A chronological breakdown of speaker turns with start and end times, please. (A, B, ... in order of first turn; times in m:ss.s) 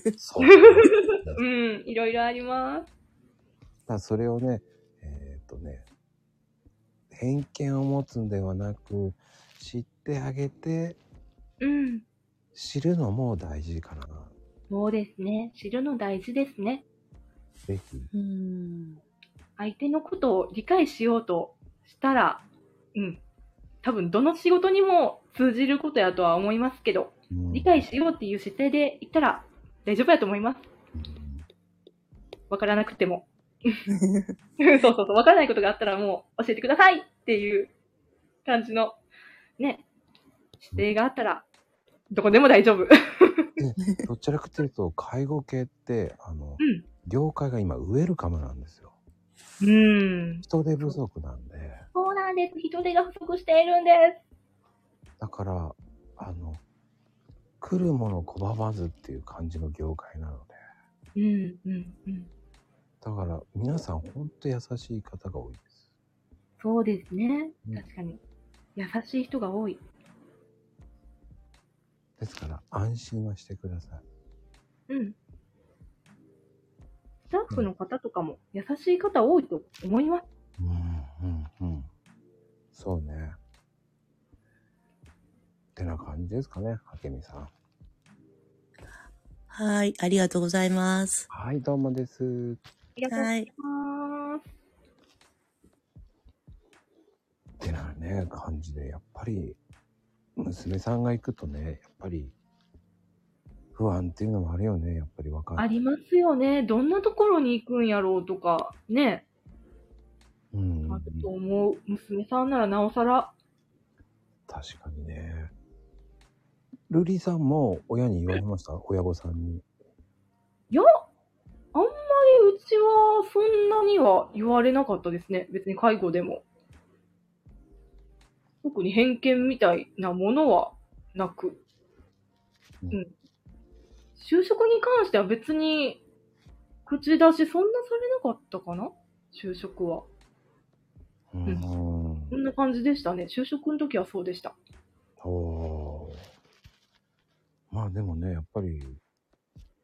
0:00.2-0:01.4 A
0:00.5-0:02.9 B
0:03.9-0:05.8 A
0:07.1-0:11.0 A
0:11.6-0:12.0 B
0:12.5-0:14.3 A
0:14.7-0:16.8 B
0:17.7-0:18.1 A
0:18.1-0:19.0 C
0:19.6-0:22.4 B
0:23.0-0:23.2 B
0:23.8-0:30.6 B
0:27.3-0:27.8 A
0:31.0-0:31.4 A
0:32.5-0:33.8 B
0:34.6-0:37.7 B
0:38.4-0:39.0 B
0:39.6-0:39.8 B
0:40.7-0:41.4 B
0:42.1-0:43.5 B
0:43.6-0:49.0 A
0:46.6-0:46.8 B
0:49.6-0:50.5 B
0:50.4-0:51.8 A
0:52.0-0:54.2 B
0:55.2-0:56.6 A
0:57.6-1:00.6 A
1:01.2-1:02.3 B
1:03.0-1:05.8 A
1:06.6-1:08.2 B
1:08.8-1:09.8 B
1:12.2-1:14.0 A
1:14.9-1:15.2 B
1:17.3-1:20.2 B
1:20.6-1:21.9 A
1:22.7-1:23.4 A
1:25.8-1:27.5 A
1:29.5-1:31.3 C
1:31.3-1:32.6 A
1:33.0-1:34.4 B
1:33.1-1:33.5 C
1:37.6-1:39.6 A
1:40.4-1:42.4 A
1:43.7-1:45.7 A
1:45.6-1:49.2 B
1:50.5-1:51.3 A
1:50.9-1:53.3 B
1:54.5-1:55.5 A
1:56.9-1:59.6 A
2:01.7-2:06.4 B
2:08.6-2:11.6 B
2:14.2-2:16.0 B
2:16.9-2:20.1 B
2:21.3-2:22.3 A
2:22.3-2:24.6 B
2:25.2-2:26.2 A
2:27.7-2:29.0 A